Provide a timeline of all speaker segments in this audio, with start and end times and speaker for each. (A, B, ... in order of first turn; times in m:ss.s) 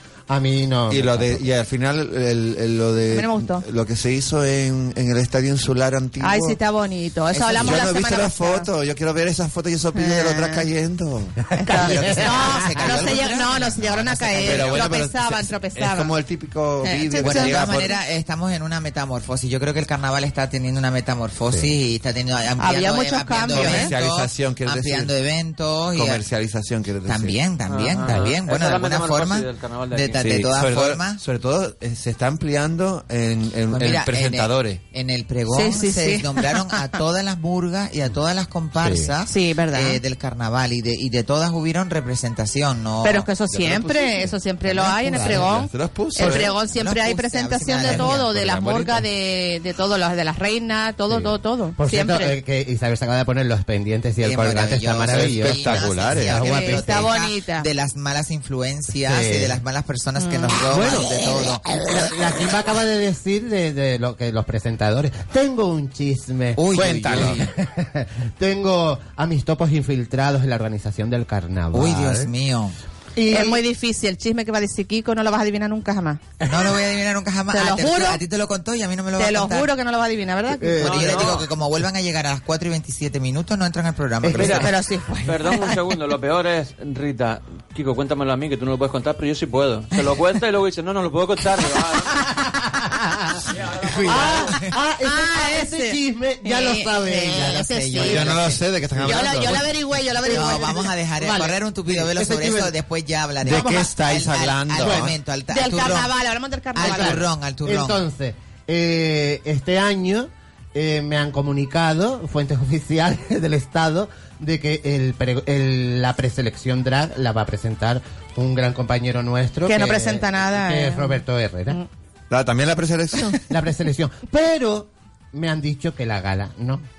0:00.3-0:01.5 A
0:00.9-0:06.6 B
0:03.1-0:03.6 C
0:06.2-0:08.7 C
0:07.3-0:07.9 D
0:07.5-0:13.3 B
0:09.9-0:10.6 C
0:11.6-0:12.0 A
0:11.7-0:16.1 C
0:12.0-0:15.0 D
0:14.3-0:18.0 B
0:16.8-0:17.7 C
0:17.2-0:26.2 D
0:22.6-0:23.9 C
0:23.5-0:25.1 B
0:25.9-0:27.4 B
0:27.0-0:31.2 D
0:27.7-0:30.3 E
0:30.2-0:34.8 B
0:33.7-0:43.3 D
0:35.5-0:37.0 C
0:38.8-0:39.1 A
0:39.3-0:40.0 C
0:43.0-0:52.3 C
0:43.5-0:46.5 B
0:45.0-0:45.6 A
0:46.2-0:46.5 A
0:46.3-0:48.3 D
0:47.8-0:49.0 B
0:51.8-0:56.9 A
0:54.2-1:01.6 D
0:55.1-0:56.4 B
0:56.4-0:57.7 C
0:58.9-0:59.6 A
1:00.2-1:00.6 C
1:00.7-1:12.3 A
1:06.6-1:07.5 D
1:06.7-1:07.4 B
1:11.7-1:12.7 D
1:13.1-1:13.6 A
1:13.3-1:16.2 C
1:16.4-1:19.7 D
1:17.5-1:18.2 C
1:19.2-1:21.0 C
1:20.6-1:21.4 A
1:20.8-1:24.7 D
1:20.9-1:21.4 E
1:24.2-1:24.7 A
1:24.4-1:24.7 E
1:24.5-1:25.8 C
1:25.2-1:32.2 E
1:32.2-1:38.2 A
1:33.5-1:34.5 E
1:34.2-1:34.7 D
1:35.0-1:38.4 C
1:37.2-1:38.6 D
1:38.0-1:40.0 B
1:39.0-1:40.9 C
1:40.3-1:46.1 D
1:40.3-1:42.7 A
1:43.4-1:43.9 A
1:43.4-1:45.2 B
1:44.8-1:45.1 A
1:45.5-1:47.2 C
1:46.7-1:48.0 D
1:46.8-2:01.8 A
1:59.6-2:01.8 C
2:02.3-2:03.4 B
2:03.5-2:06.8 A